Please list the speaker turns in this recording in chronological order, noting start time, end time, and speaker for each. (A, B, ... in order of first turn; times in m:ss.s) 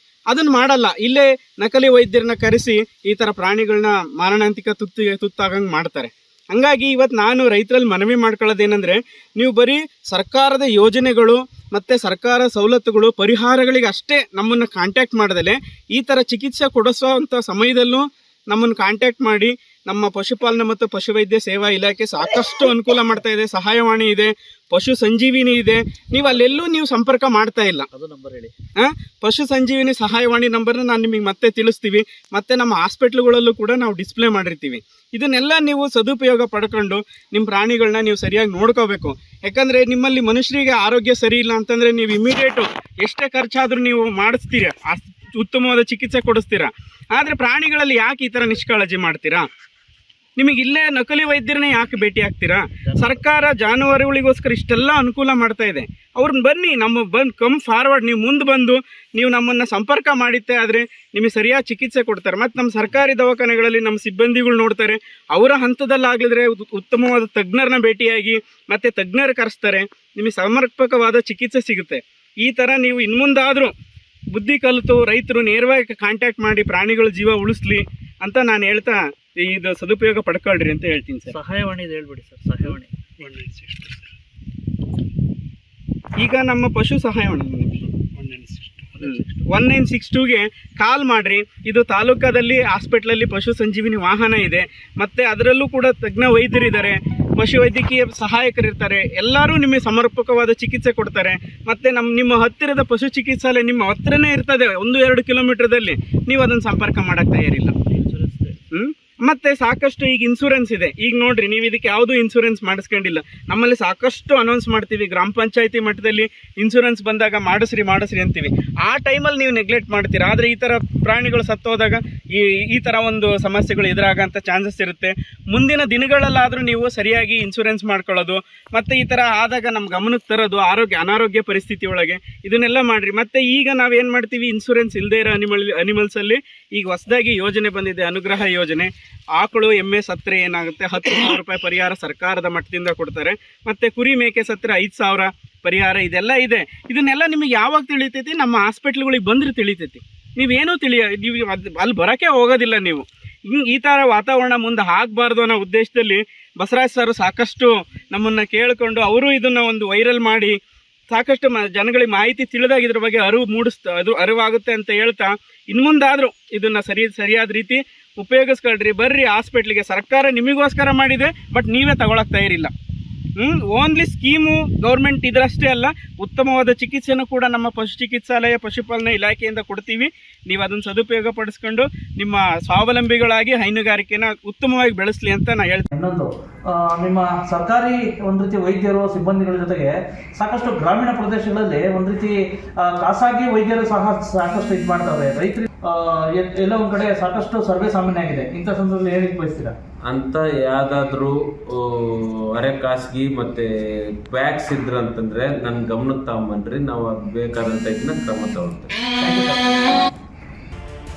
0:00.3-0:27.9 A
0:27.9-0:28.5 B
0:28.8-0:49.5 A
0:50.4-1:13.7 A
0:52.8-0:53.1 B
1:14.3-1:21.3 A
1:21.3-1:22.9 B
1:22.7-1:24.0 A
1:26.2-1:47.7 A
1:29.0-1:29.4 B
1:48.0-1:48.6 B
1:48.7-2:40.6 A
2:41.1-2:52.7 A
2:53.4-3:05.9 A
3:05.9-3:19.7 B
3:20.0-3:28.9 C
3:29.2-3:30.0 B